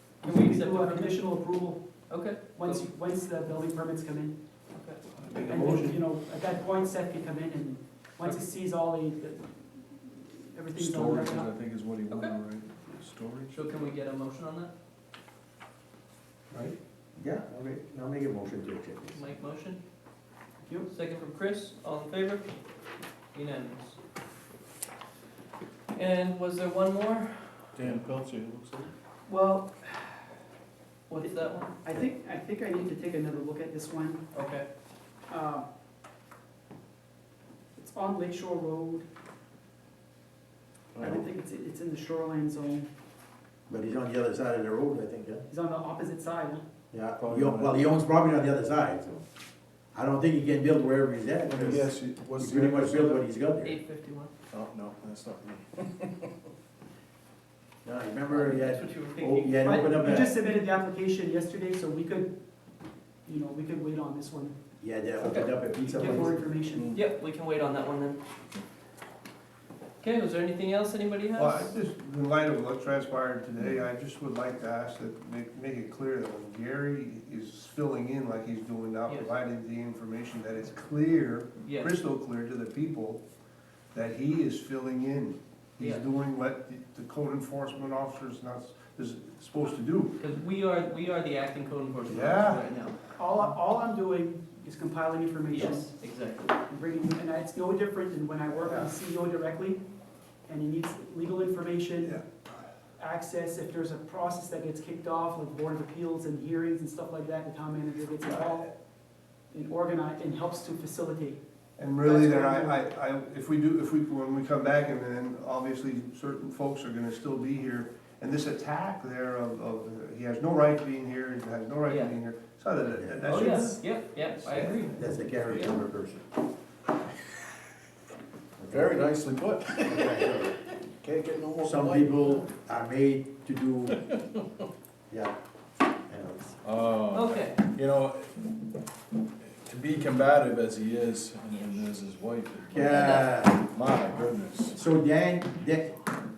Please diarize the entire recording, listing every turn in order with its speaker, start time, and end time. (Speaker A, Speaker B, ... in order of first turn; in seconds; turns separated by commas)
Speaker A: 0.2-1.8, Speaker B: 0.2-1.2, Speaker B: 2.1-2.9, Speaker A: 2.5-4.4, Speaker B: 4.7-5.0, Speaker C: 5.2-6.0, Speaker A: 5.5-11.5, Speaker D: 10.8-13.6, Speaker B: 12.1-12.4, Speaker C: 12.4-12.6, Speaker B: 13.5-14.7, Speaker C: 16.5-16.8, Speaker E: 17.2-19.2, Speaker B: 19.1-19.8, Speaker A: 20.6-20.9, Speaker B: 20.9-22.6, Speaker B: 23.3-24.0, Speaker B: 25.9-27.8, Speaker D: 27.8-28.9, Speaker A: 29.3-30.2, Speaker B: 31.1-31.7, Speaker A: 31.2-34.3, Speaker B: 34.3-34.7, Speaker A: 35.3-35.7, Speaker A: 37.8-39.1, Speaker D: 41.0-41.2, Speaker A: 41.0-42.9, Speaker E: 43.7-45.5, Speaker A: 45.5-46.6, Speaker E: 46.9-49.2, Speaker D: 47.2-47.8, Speaker E: 49.9-53.8, Speaker D: 51.5-53.2, Speaker B: 53.6-54.3, Speaker D: 54.5-56.4, Speaker E: 57.8-60.3, Speaker B: 58.3-59.9, Speaker A: 59.6-62.4, Speaker A: 63.3-64.6, Speaker E: 64.8-66.7, Speaker B: 65.2-65.5, Speaker A: 65.8-67.0, Speaker B: 66.9-68.2, Speaker B: 70.0-71.8, Speaker C: 71.3-83.2, Speaker B: 79.1-79.3, Speaker B: 81.6-82.0, Speaker C: 83.9-90.2, Speaker B: 85.8-86.1, Speaker B: 90.2-93.0, Speaker C: 92.1-92.7, Speaker A: 93.2-95.9, Speaker B: 95.5-96.5, Speaker A: 96.7-99.8, Speaker C: 98.6-98.9, Speaker A: 100.5-102.2, Speaker A: 103.0-108.7, Speaker A: 109.5-111.4, Speaker C: 111.8-125.0, Speaker A: 112.0-112.8, Speaker B: 121.9-122.2, Speaker E: 122.8-123.5, Speaker B: 123.3-125.8, Speaker E: 124.9-126.2, Speaker E: 128.6-129.1, Speaker D: 128.7-130.4, Speaker E: 129.8-130.6, Speaker D: 131.0-132.4, Speaker E: 131.6-134.0, Speaker E: 136.1-136.6, Speaker D: 136.6-138.4, Speaker B: 137.1-137.6, Speaker D: 139.4-144.8, Speaker E: 142.7-143.6, Speaker B: 142.8-143.4, Speaker E: 144.7-145.9